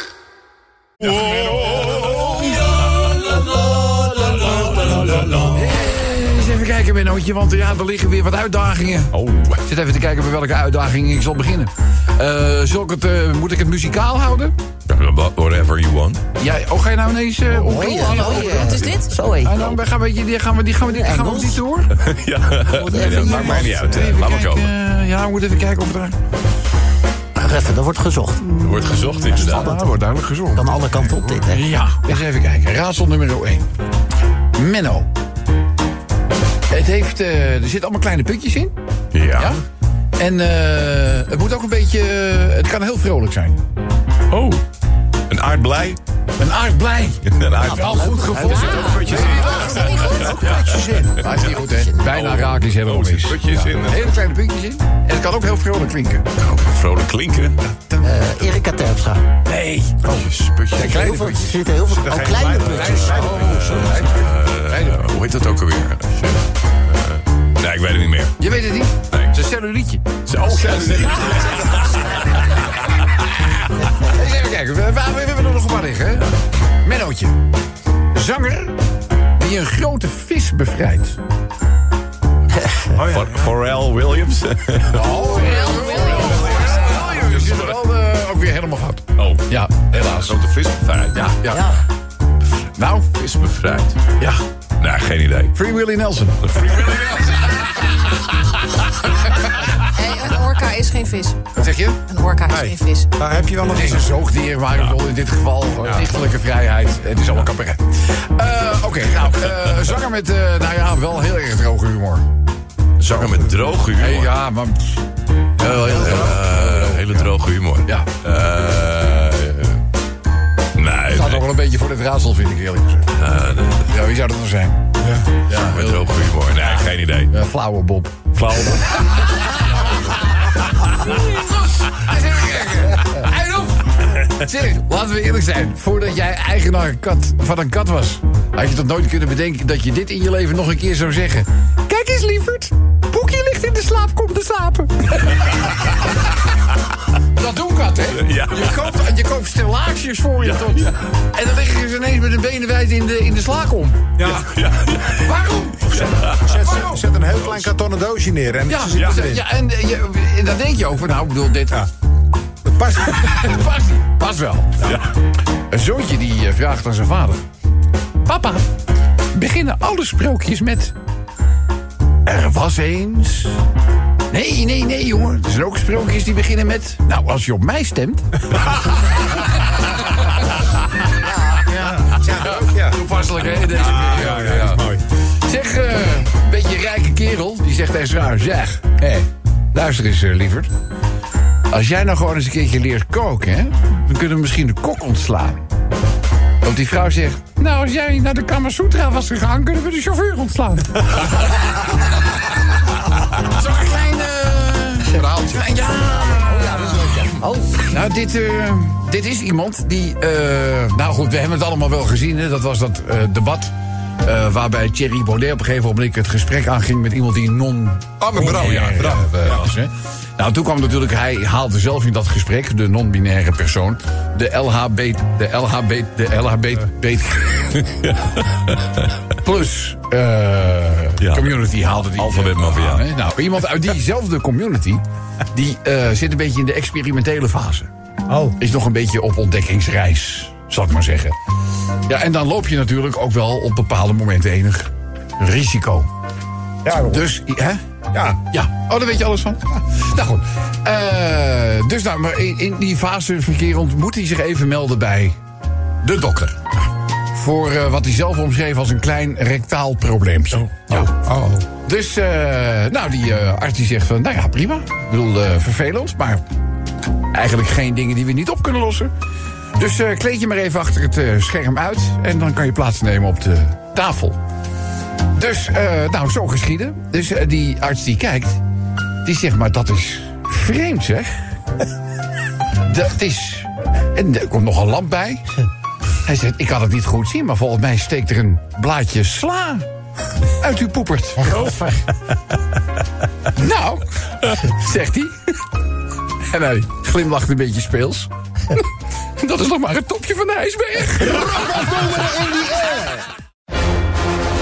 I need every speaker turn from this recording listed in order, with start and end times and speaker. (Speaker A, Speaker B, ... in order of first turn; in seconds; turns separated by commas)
Speaker A: 1.0-3.5, Speaker A: 4.3-5.3, Speaker B: 5.5-14.5, Speaker A: 9.1-9.6, Speaker A: 14.9-16.2, Speaker B: 16.4-21.9, Speaker C: 17.5-19.6, Speaker D: 18.1-19.1, Speaker C: 20.9-21.6, Speaker A: 22.0-24.7, Speaker C: 22.7-24.1, Speaker B: 22.9-26.2, Speaker C: 27.4-28.5, Speaker A: 28.5-29.7, Speaker B: 28.8-33.7, Speaker C: 29.4-30.0, Speaker C: 30.5-31.7, Speaker B: 34.5-35.1, Speaker B: 36.7-38.7, Speaker A: 39.1-39.6, Speaker B: 39.3-39.6, Speaker B: 40.2-43.6, Speaker A: 44.3-44.6, Speaker A: 45.3-46.0, Speaker B: 46.4-56.3, Speaker A: 47.3-48.0, Speaker C: 47.5-49.2, Speaker A: 48.6-50.8, Speaker D: 48.7-50.3, Speaker E: 48.9-50.3, Speaker C: 51.7-52.0, Speaker A: 52.0-54.2, Speaker A: 56.4-57.7, Speaker C: 58.0-59.2, Speaker B: 59.4-61.7, Speaker A: 60.0-61.2, Speaker C: 60.8-63.3, Speaker E: 61.8-63.6, Speaker B: 62.6-65.0, Speaker A: 63.3-68.4, Speaker B: 68.4-71.7, Speaker A: 70.4-71.6, Speaker B: 73.8-76.3, Speaker B: 76.8-77.4, Speaker B: 78.1-78.8, Speaker B: 79.3-81.2, Speaker A: 82.9-85.1, Speaker E: 83.0-83.5, Speaker B: 84.9-90.4, Speaker D: 85.4-86.5, Speaker A: 86.1-87.7, Speaker A: 90.2-91.3, Speaker B: 91.1-91.8, Speaker C: 91.5-91.8, Speaker B: 92.8-93.2, Speaker A: 93.1-94.0, Speaker A: 94.8-95.5, Speaker B: 95.5-96.9, Speaker A: 96.4-97.4, Speaker D: 99.9-103.1, Speaker B: 101.5-102.0, Speaker E: 102.5-104.1, Speaker B: 103.7-112.2, Speaker A: 113.0-114.3, Speaker B: 113.9-114.9, Speaker B: 115.6-117.3, Speaker A: 115.8-119.8, Speaker B: 117.8-118.1, Speaker A: 120.7-121.5, Speaker B: 121.1-124.8, Speaker A: 123.1-123.9, Speaker B: 125.5-126.2, Speaker A: 125.5-127.3, Speaker B: 126.8-129.2, Speaker A: 128.3-129.0, Speaker B: 130.8-146.3, Speaker B: 147.2-154.5, Speaker A: 148.2-148.9, Speaker A: 150.4-150.8, Speaker E: 154.2-154.4, Speaker A: 154.4-155.3, Speaker B: 155.1-157.1, Speaker E: 155.9-159.4, Speaker A: 155.9-156.4, Speaker B: 158.7-161.9, Speaker E: 162.6-163.5, Speaker B: 163.1-165.0, Speaker B: 165.7-167.4, Speaker B: 168.2-168.6, Speaker B: 169.3-170.9, Speaker B: 172.2-173.6, Speaker B: 174.3-178.8, Speaker E: 181.5-183.0, Speaker B: 182.2-190.7, Speaker E: 183.7-185.0, Speaker B: 191.7-195.6, Speaker B: 196.6-201.4, Speaker B: 203.3-227.8, Speaker C: 206.3-207.8, Speaker E: 218.2-219.7, Speaker A: 227.7-229.1, Speaker B: 229.3-237.9, Speaker A: 231.2-231.5, Speaker A: 232.1-233.1, Speaker E: 238.3-238.5, Speaker B: 238.6-241.3, Speaker B: 242.1-246.1, Speaker E: 246.8-247.2, Speaker B: 247.1-247.8, Speaker E: 248.1-248.4, Speaker B: 248.4-255.4, Speaker B: 256.0-256.6, Speaker B: 257.3-261.1, Speaker E: 260.9-261.7, Speaker B: 261.8-266.4, Speaker B: 267.3-269.1, Speaker B: 269.7-274.4, Speaker B: 275.3-278.6, Speaker B: 279.2-281.4, Speaker B: 282.8-285.5, Speaker B: 286.2-289.9, Speaker B: 290.6-291.9, Speaker B: 293.5-295.4, Speaker B: 296.4-302.1, Speaker C: 301.3-303.3